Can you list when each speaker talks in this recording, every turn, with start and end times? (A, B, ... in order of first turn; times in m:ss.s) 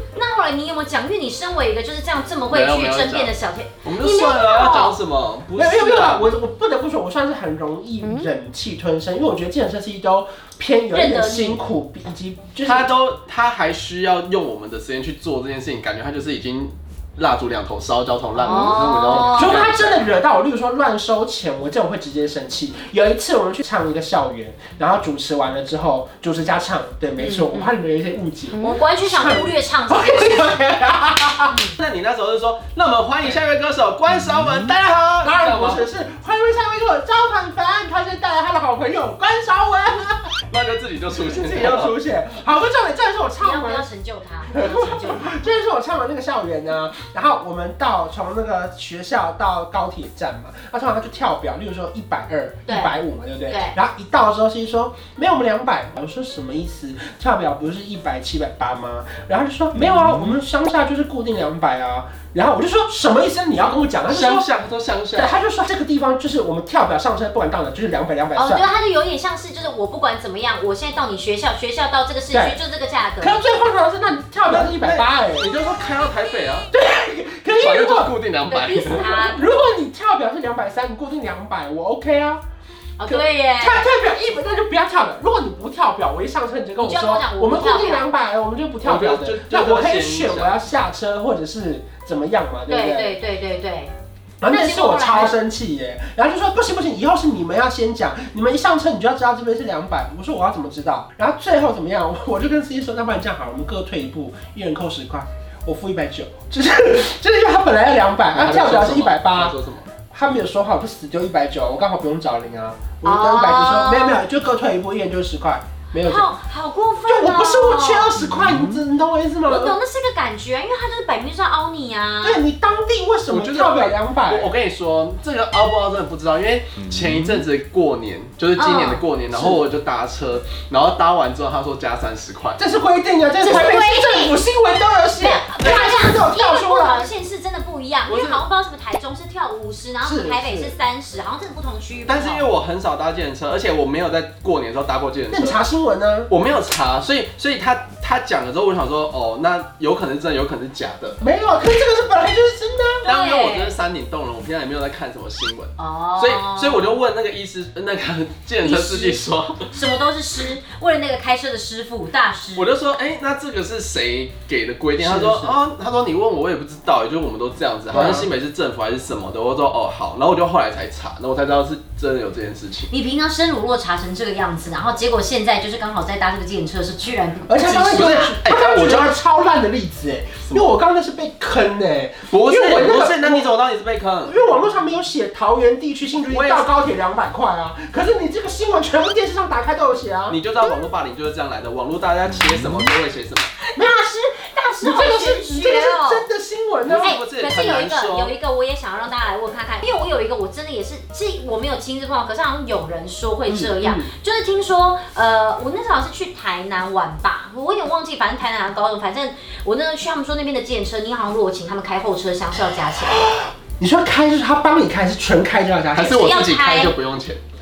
0:00.2-0:05.0 A
0:02.5-0:03.3 B
0:03.8-0:06.3 B
0:05.5-0:12.9 C
0:08.0-0:08.3 A
0:10.9-0:11.6 A
0:12.6-0:20.1 B
0:18.4-0:19.8 A
0:19.1-0:31.6 C
0:27.2-0:27.7 A
0:28.6-0:30.4 A
0:31.5-0:31.8 A
0:31.8-0:35.8 B
0:35.2-0:40.4 C
0:40.5-0:42.0 B
0:41.2-0:43.9 C
0:43.4-0:45.4 A
0:44.5-1:04.5 C
0:52.7-0:53.8 A
1:04.0-1:05.4 B
1:05.1-1:08.7 C
1:08.4-1:13.4 A
1:12.3-1:12.6 C
1:13.2-1:15.5 C
1:14.5-1:16.7 B
1:16.7-1:18.1 C
1:17.5-1:19.2 B
1:18.5-1:19.5 A
1:18.9-1:22.4 C
1:23.0-1:23.9 A
1:23.1-1:33.2 C
1:26.8-1:28.1 A
1:28.8-1:30.6 B
1:32.7-1:33.9 A
1:34.4-1:49.6 C
1:34.5-1:35.4 A
1:48.3-1:49.9 B
1:50.1-1:56.3 C
1:53.0-1:54.2 A
1:56.0-1:58.2 A
1:57.1-1:59.8 C
1:59.5-2:02.4 A
2:02.2-2:04.5 C
2:03.3-2:12.6 B
2:08.6-2:09.0 A
2:09.3-2:09.6 C
2:12.6-2:17.1 C
2:13.4-2:14.4 A
2:15.2-2:22.5 A
2:15.6-2:15.9 B
2:18.1-2:18.4 B
2:20.0-2:20.7 C
2:22.1-2:25.6 B
2:25.3-2:26.3 C
2:26.3-2:31.2 B
2:31.2-2:33.1 C
2:33.0-2:33.8 A
2:33.1-2:39.7 B
2:35.8-2:37.0 A
2:38.6-2:39.2 A
2:39.7-2:42.7 A
2:42.6-2:52.9 B
2:45.0-2:45.6 C
2:47.9-2:48.3 C
2:52.9-2:58.3 A
2:57.5-3:03.6 C
2:57.7-2:59.1 B
3:00.4-3:00.7 B
3:02.3-3:04.4 B
3:04.3-3:10.4 C
3:06.2-3:06.7 B
3:10.3-3:13.5 B
3:13.6-3:16.3 A
3:13.8-3:14.3 C
3:14.8-3:17.2 C
3:16.8-3:18.3 B
3:17.0-3:33.3 A
3:23.5-3:24.1 C
3:33.3-3:36.4 C
3:35.9-3:37.4 B
3:36.1-3:37.0 A